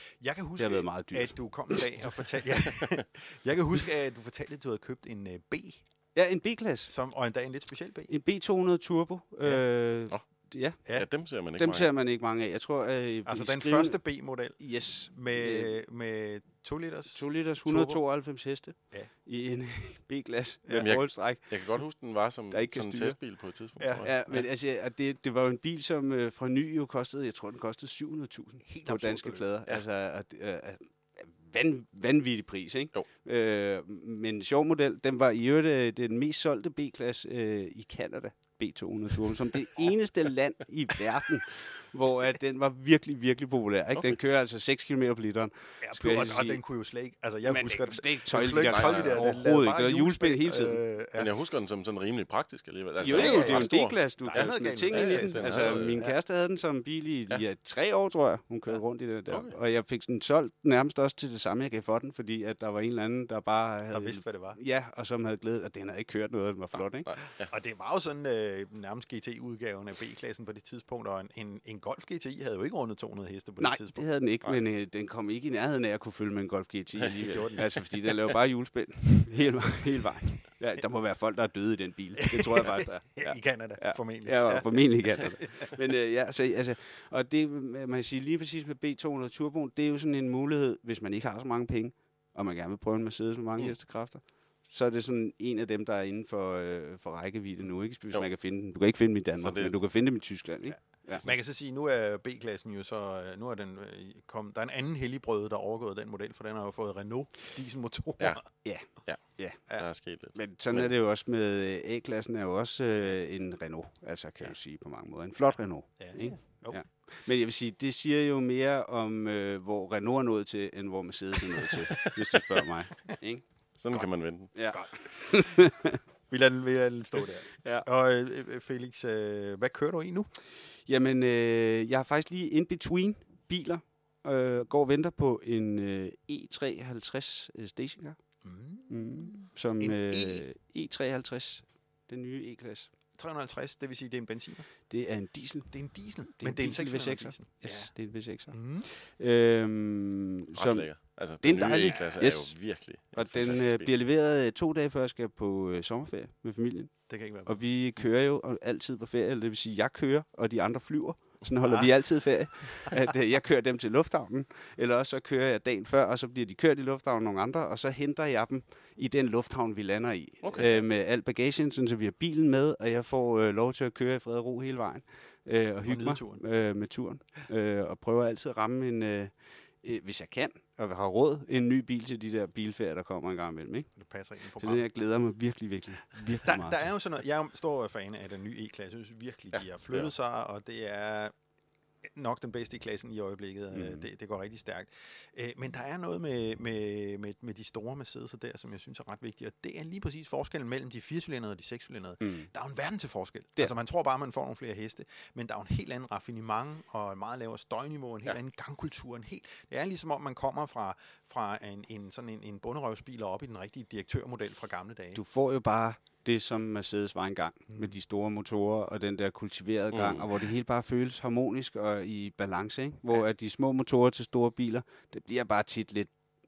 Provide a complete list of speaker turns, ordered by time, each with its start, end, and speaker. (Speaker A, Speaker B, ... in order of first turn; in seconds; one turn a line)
Speaker A: 0.2-5.8
Speaker B: 0.6-1.8
Speaker B: 6.2-6.9
Speaker A: 6.9-8.1
Speaker B: 8.1-10.8
Speaker C: 11.0-11.9
Speaker B: 11.6-14.0
Speaker A: 13.3-18.0
Speaker B: 14.6-15.7
Speaker B: 17.1-21.6
Speaker C: 20.8-24.4
Speaker B: 22.5-23.2
Speaker A: 23.8-24.1
Speaker B: 24.0-46.6
Speaker A: 28.6-29.5
Speaker A: 45.8-51.3
Speaker B: 47.5-50.8
Speaker C: 48.6-49.3
Speaker C: 51.2-56.0
Speaker B: 53.0-67.1
Speaker A: 53.1-56.2
Speaker C: 59.3-59.6
Speaker A: 63.9-64.6
Speaker C: 67.1-67.5
Speaker A: 67.5-74.0
Speaker B: 73.6-101.3
Speaker A: 77.1-77.7
Speaker A: 82.2-85.8
Speaker C: 99.4-99.8
Speaker A: 100.7-108.5
Speaker B: 108.6-109.6
Speaker C: 109.7-110.9
Speaker B: 110.3-123.4
Speaker A: 116.0-116.8
Speaker C: 123.8-124.5
Speaker B: 124.6-126.0
Speaker A: 124.7-125.6
Speaker A: 126.3-130.3
Speaker B: 130.9-138.2
Speaker A: 138.4-140.5
Speaker B: 138.9-142.9
Speaker A: 143.2-144.7
Speaker B: 144.9-152.6
Speaker A: 145.7-147.9
Speaker A: 148.5-148.9
Speaker C: 150.5-153.9
Speaker A: 151.9-152.1
Speaker B: 153.1-179.3
Speaker A: 157.1-157.6
Speaker A: 161.6-161.9
Speaker C: 170.4-170.7
Speaker A: 175.8-176.4
Speaker B: 179.8-183.9
Speaker A: 184.0-184.8
Speaker B: 184.6-186.9
Speaker A: 186.4-191.3
Speaker A: 192.1-215.2
Speaker B: 193.7-194.1
Speaker B: 202.2-202.5
Speaker B: 215.2-226.1
Speaker A: 217.7-217.9
Speaker C: 219.9-220.3